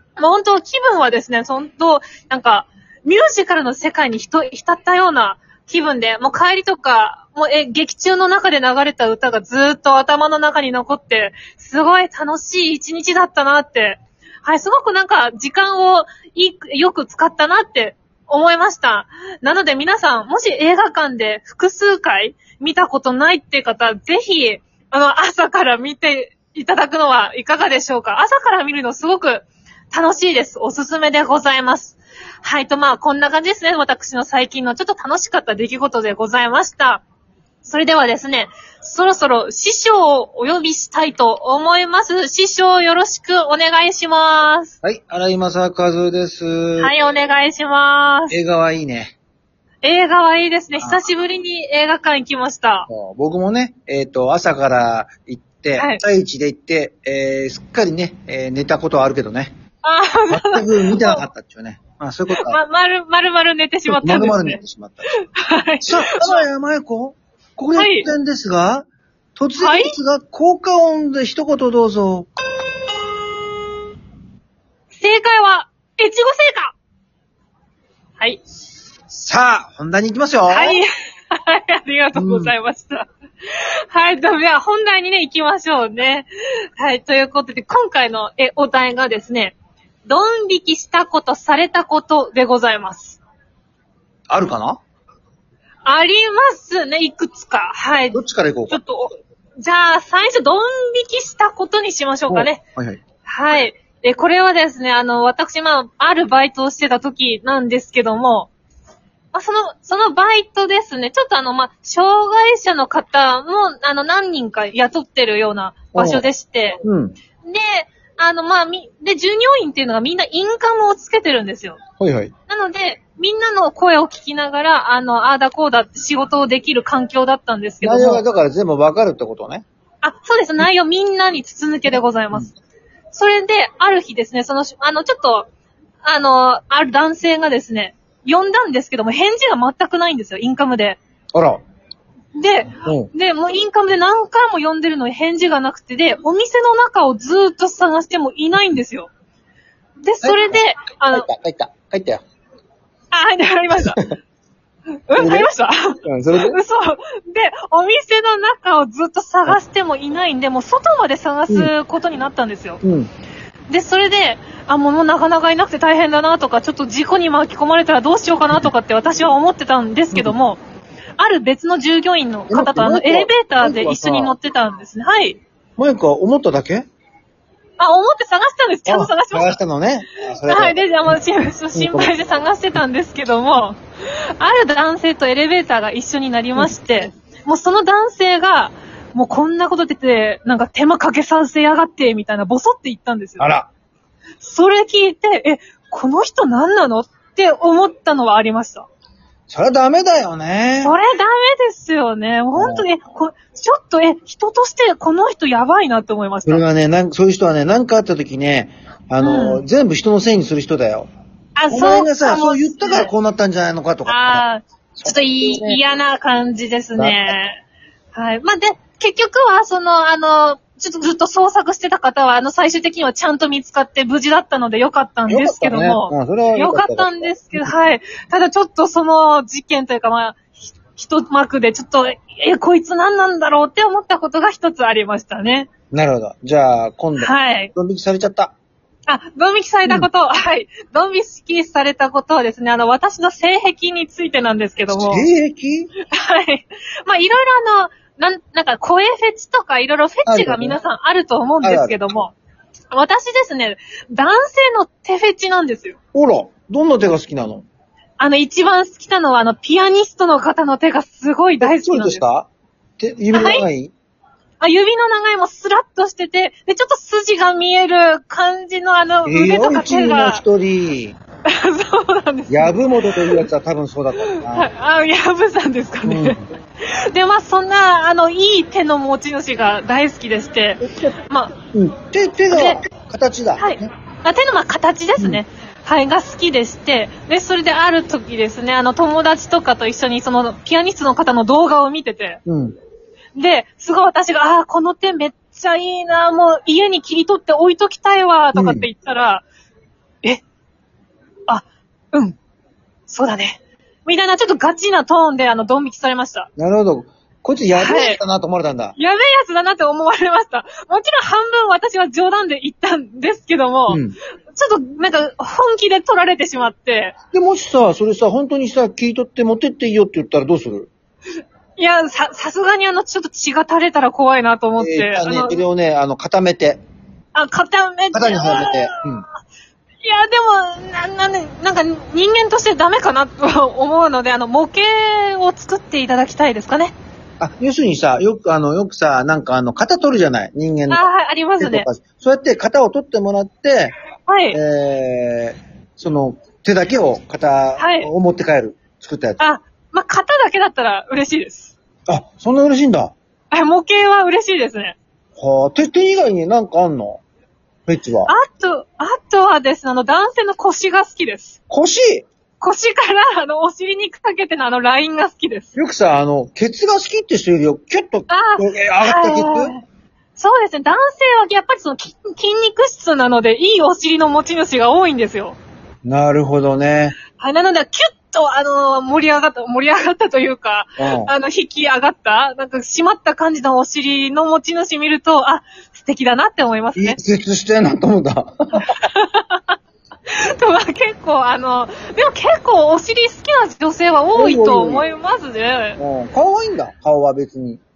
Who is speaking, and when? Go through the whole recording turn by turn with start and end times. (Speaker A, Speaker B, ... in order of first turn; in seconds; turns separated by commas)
Speaker A: 0.2-37.0, Speaker A: 37.6-44.7, Speaker B: 44.8-46.9, Speaker A: 46.8-48.4, Speaker B: 48.3-49.1, Speaker A: 49.8-52.9, Speaker B: 52.9-59.5, Speaker A: 59.8-61.2, Speaker B: 60.3-62.6, Speaker A: 62.4-64.6, Speaker B: 63.9-65.1, Speaker A: 65.2-66.5, Speaker B: 65.8-72.3, Speaker A: 67.7-68.1, Speaker A: 69.6-70.0, Speaker A: 74.9-76.7, Speaker B: 79.1-80.8, Speaker A: 80.5-89.5, Speaker B: 82.1-82.5, Speaker A: 90.1-93.2, Speaker B: 94.3-94.8, Speaker A: 95.8-98.2, Speaker B: 98.1-98.8, Speaker A: 98.7-102.6, Speaker B: 102.3-103.0, Speaker A: 103.2-108.5, Speaker A: 109.3-116.8, Speaker B: 115.9-116.2, Speaker B: 116.8-117.2, Speaker A: 117.4-121.8, Speaker B: 122.0-122.3, Speaker A: 122.5-128.2, Speaker B: 127.8-129.6, Speaker A: 130.0-132.5, Speaker A: 133.1-135.5, Speaker A: 136.0-141.0, Speaker B: 141.3-141.6, Speaker A: 142.3-149.1, Speaker B: 142.8-143.1, Speaker A: 150.0-151.3, Speaker B: 150.2-152.2, Speaker A: 153.1-154.0, Speaker A: 155.1-162.8, Speaker B: 155.2-155.5, Speaker B: 156.0-156.6, Speaker B: 162.8-163.1, Speaker A: 163.7-170.6, Speaker A: 171.2-175.4, Speaker B: 172.5-174.3, Speaker B: 175.8-176.8, Speaker A: 177.8-179.5, Speaker B: 178.9-181.2, Speaker A: 180.5-183.8, Speaker B: 181.7-182.1, Speaker A: 184.4-193.5, Speaker B: 193.4-193.7, Speaker A: 194.4-198.9, Speaker B: 199.5-200.9, Speaker A: 200.8-206.6, Speaker B: 202.5-202.9, Speaker B: 206.4-211.1, Speaker A: 209.2-209.6, Speaker A: 211.6-213.1, Speaker B: 211.7-214.4, Speaker A: 214.1-217.6, Speaker B: 214.9-215.8, Speaker B: 216.9-217.3, Speaker A: 218.1-235.7, Speaker B: 225.3-227.7, Speaker B: 235.9-238.5, Speaker A: 237.2-237.7, Speaker A: 239.1-245.2, Speaker B: 244.9-245.9, Speaker A: 246.1-252.3, Speaker B: 250.2-250.8, Speaker B: 251.6-252.0, Speaker A: 252.9-256.0, Speaker B: 256.1-257.6, Speaker A: 258.2-262.2, Speaker B: 261.6-263.9, Speaker A: 263.3-263.6, Speaker A: 264.6-270.4, Speaker B: 269.2-271.1, Speaker A: 271.5-273.5, Speaker B: 272.5-274.7, Speaker A: 274.2-281.5, Speaker B: 276.0-276.4, Speaker B: 280.8-281.1, Speaker B: 281.7-283.9, Speaker A: 282.5-282.8, Speaker A: 283.6-292.4, Speaker B: 285.2-285.4, Speaker B: 292.4-292.8, Speaker A: 293.3-299.4, Speaker B: 298.5-298.9, Speaker A: 301.5-302.4, Speaker A: 303.1-306.5, Speaker B: 306.6-308.9, Speaker A: 307.8-308.2, Speaker A: 308.9-314.0, Speaker B: 313.9-314.1, Speaker A: 314.5-317.1, Speaker B: 317.3-320.9, Speaker A: 321.8-325.6, Speaker B: 324.8-326.8, Speaker A: 327.3-329.0, Speaker B: 328.1-329.2, Speaker A: 330.0-336.9, Speaker B: 337.4-341.0, Speaker A: 340.9-341.9, Speaker B: 341.6-343.9, Speaker A: 344.3-344.6, Speaker B: 344.5-349.4, Speaker A: 347.8-348.1, Speaker A: 349.4-351.7, Speaker B: 352.1-353.1, Speaker A: 353.5-355.0, Speaker B: 355.4-357.2, Speaker B: 357.9-358.3, Speaker A: 358.3-361.6, Speaker B: 361.7-362.2, Speaker A: 362.6-365.7, Speaker B: 365.7-369.7, Speaker A: 368.3-369.8, Speaker A: 370.4-375.6, Speaker B: 376.0-377.1, Speaker A: 377.3-387.2, Speaker B: 381.0-381.3, Speaker B: 386.9-388.9, Speaker A: 388.8-389.8, Speaker A: 390.3-396.0, Speaker B: 394.3-395.1, Speaker B: 396.0-397.8